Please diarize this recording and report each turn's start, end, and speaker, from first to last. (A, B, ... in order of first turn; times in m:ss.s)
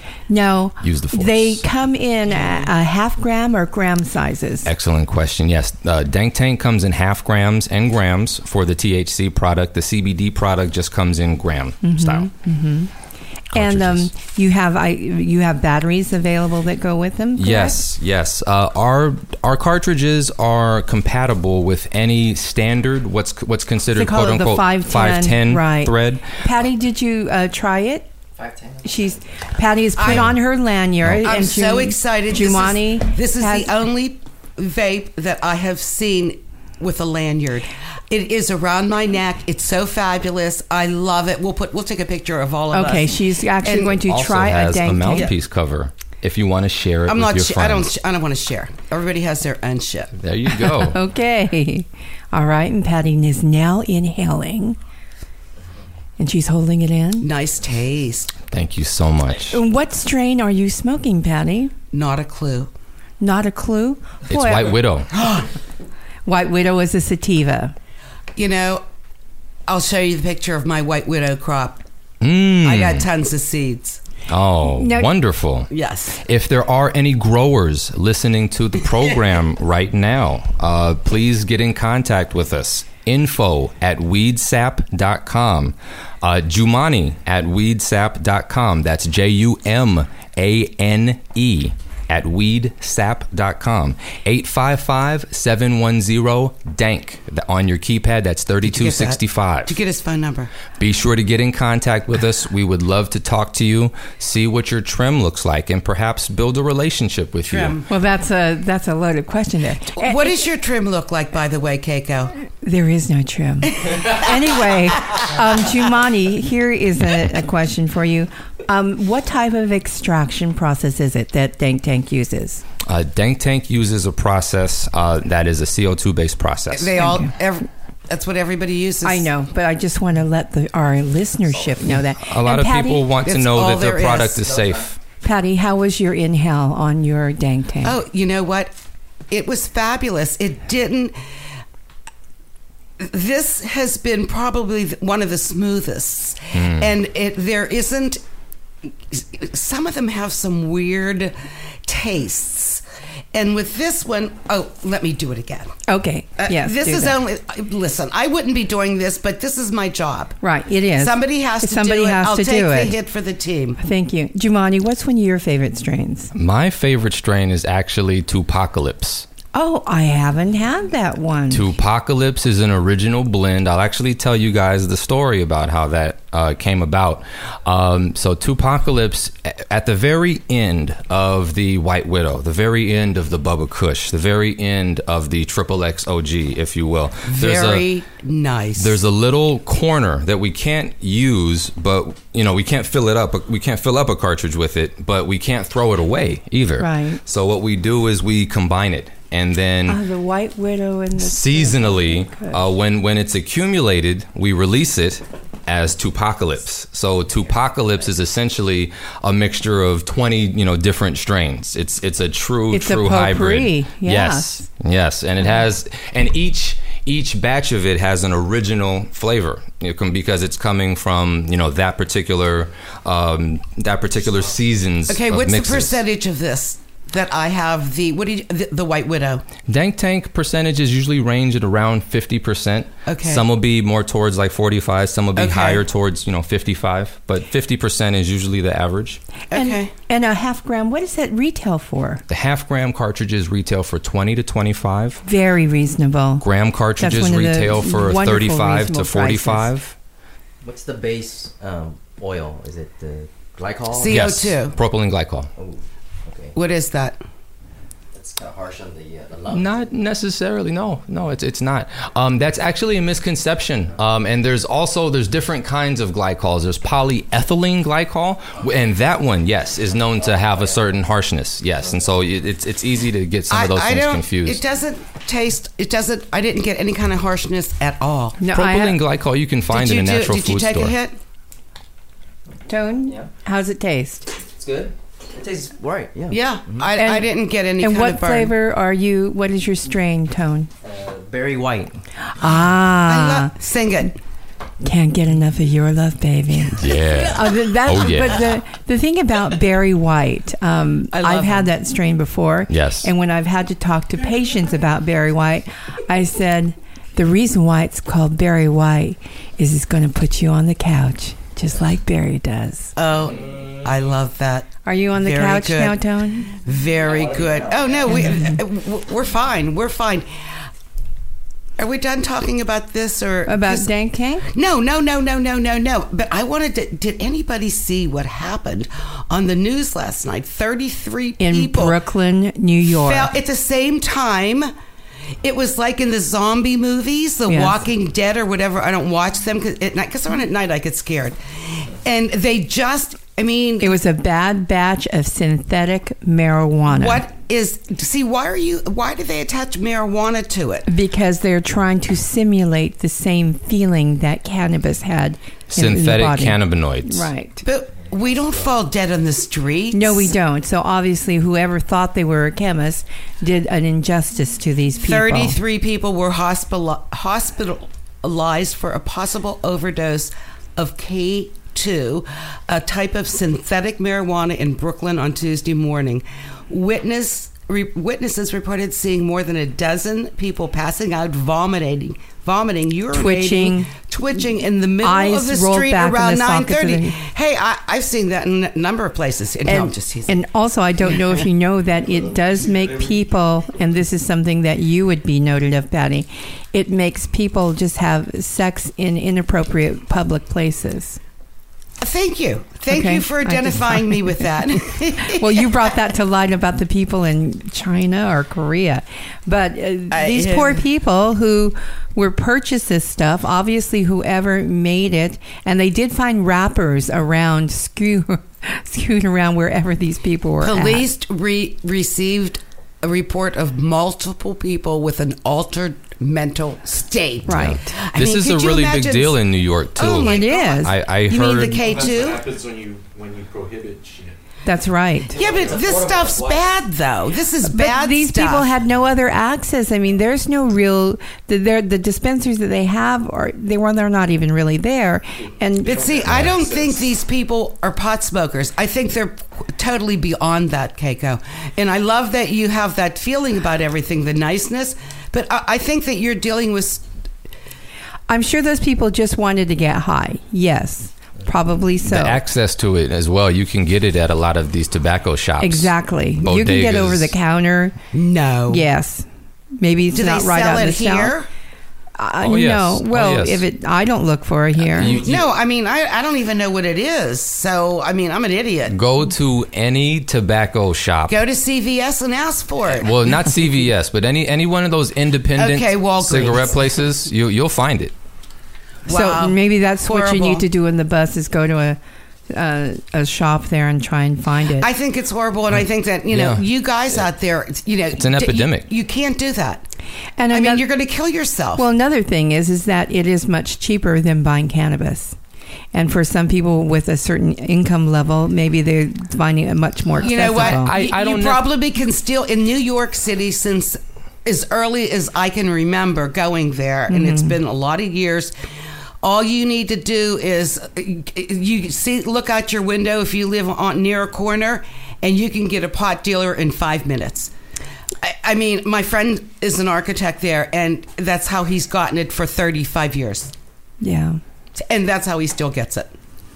0:00.3-0:04.7 A
0:00.8-0:01.6 B
0:04.6-0:12.3 B
0:11.8-0:12.9 A
0:13.5-0:14.1 B
0:13.5-0:17.8 A
0:17.4-0:26.3 B
0:24.0-0:28.1 A
0:28.4-0:29.2 C
0:28.8-0:33.7 A
0:30.0-0:30.3 D
0:31.2-0:44.0 D
0:42.7-0:45.3 A
0:44.0-0:47.9 B
0:47.1-0:50.1 D
0:50.2-0:51.0 B
0:50.8-0:54.8 A
0:56.2-0:57.3 A
0:57.2-0:58.3 D
0:58.5-0:59.6 B
0:59.5-1:01.7 A
1:01.9-1:02.7 D
1:03.2-1:04.8 A
1:04.3-1:05.1 B
1:05.1-1:05.5 D
1:06.3-1:07.7 A
1:08.4-1:08.8 D
1:09.7-1:11.8 D
1:12.2-1:13.0 B
1:12.6-1:14.0 D
1:14.3-1:15.7 B
1:14.8-1:15.1 A
1:15.7-1:16.2 D
1:16.2-1:39.8 B
1:38.6-1:40.5 D
1:40.8-1:47.8 B
1:47.5-1:47.9 D
1:47.9-1:50.3 A
1:50.0-1:52.3 D
1:52.6-2:02.6 A
2:02.9-2:06.9 B
2:06.7-2:09.2 D
2:07.0-2:07.3 A
2:09.0-2:13.0 A
2:12.2-2:15.0 B
2:13.2-2:14.4 D
2:14.4-2:14.8 C
2:15.2-2:18.0 A
2:17.8-2:18.7 D
2:19.3-2:21.1 D
2:23.0-2:28.2 D
2:26.6-2:26.9 B
2:29.1-2:31.4 D
2:31.9-2:32.8 D
2:33.3-2:35.7 D
2:35.9-2:37.2 A
2:36.4-2:40.4 D
2:40.4-2:43.0 A
2:41.0-2:43.8 D
2:43.8-2:46.3 A
2:46.4-2:49.3 B
2:49.6-2:51.7 A
2:51.5-3:07.9 B
3:07.3-3:09.0 D
3:08.8-3:20.0 B
3:16.8-3:17.2 A
3:19.9-3:22.6 A
3:21.2-3:46.0 B
3:32.7-3:34.6 A
3:45.1-3:49.5 D
3:49.7-3:59.2 B
3:53.1-3:53.5 D
3:55.4-3:55.8 D
3:59.5-3:59.9 D
3:59.5-4:02.2 A
4:02.3-4:05.2 B
4:05.2-4:06.5 A
4:06.4-4:10.0 B
4:07.0-4:09.7 A
4:10.6-4:14.3 C
4:14.0-4:14.8 D
4:14.1-4:15.5 B
4:15.6-4:16.5 C
4:16.6-4:17.2 D
4:18.1-4:19.9 C
4:19.5-4:34.6 B
4:33.5-4:38.4 D
4:38.4-4:39.0 A
4:38.5-4:41.0 B
4:39.7-4:41.2 D
4:42.7-4:44.3 A
4:44.5-4:46.9 C
4:46.3-4:48.5 D
4:47.0-4:47.3 A
4:47.8-4:50.7 A
4:50.8-4:52.0 C
4:52.4-4:53.5 A
4:53.1-4:54.2 D
4:54.8-5:12.9 A
4:56.8-4:58.5 B
5:01.1-5:01.7 D
5:02.7-5:03.1 B
5:13.0-5:16.0 D
5:14.8-5:16.5 A
5:16.6-5:20.3 D
5:17.0-5:18.2 C
5:18.1-5:18.5 A
5:21.8-5:23.9 D
5:23.5-5:24.4 A
5:24.5-5:32.0 D
5:31.4-5:33.3 A
5:33.0-5:34.7 D
5:35.4-5:44.0 D
5:37.5-5:37.8 A
5:43.8-5:47.2 A
5:46.9-5:50.9 D
5:50.9-5:57.6 A
5:55.7-5:57.3 B
5:57.6-6:00.3 D
5:59.9-6:05.6 A
6:05.0-6:30.4 D
6:23.1-6:23.9 A
6:25.0-6:27.2 A
6:29.7-6:41.2 A
6:42.0-6:45.6 D
6:42.9-6:44.5 A
6:45.2-7:01.1 A
6:50.1-6:50.8 D
7:00.6-7:09.4 D
7:07.5-7:07.9 A
7:07.5-7:11.8 B
7:10.0-7:12.5 D
7:10.2-7:10.9 A
7:12.0-7:14.4 E
7:14.7-7:15.4 A
7:15.3-7:18.7 D
7:15.4-7:16.3 C
7:17.6-7:26.1 A
7:25.8-7:37.0 D
7:38.3-7:42.4 A
7:42.1-7:47.3 B
7:45.6-7:48.0 A
7:48.1-7:48.8 D
7:48.7-7:49.2 A
7:49.8-7:51.4 A
7:50.1-7:51.5 D
7:52.2-7:55.2 A
7:52.4-7:53.6 B
7:54.9-7:55.4 B
7:55.1-7:55.5 C
7:55.1-7:59.0 D
7:58.9-8:01.4 B
8:01.3-8:03.1 D
8:02.9-8:08.1 B
8:05.6-8:06.8 D
8:09.1-8:10.6 D
8:09.1-8:12.0 A
8:12.5-8:14.9 A
8:14.8-8:19.9 D
8:16.3-8:16.6 B
8:18.2-8:18.9 B
8:20.4-8:20.9 A
8:20.5-8:21.9 D
8:21.8-8:25.4 A
8:25.9-8:30.9 A
8:30.2-8:38.5 D
8:30.3-8:31.7 B
8:37.1-8:37.6 A
8:39.2-8:47.5 D
8:48.2-8:53.5 D
8:54.0-8:54.4 A
8:54.8-8:56.1 D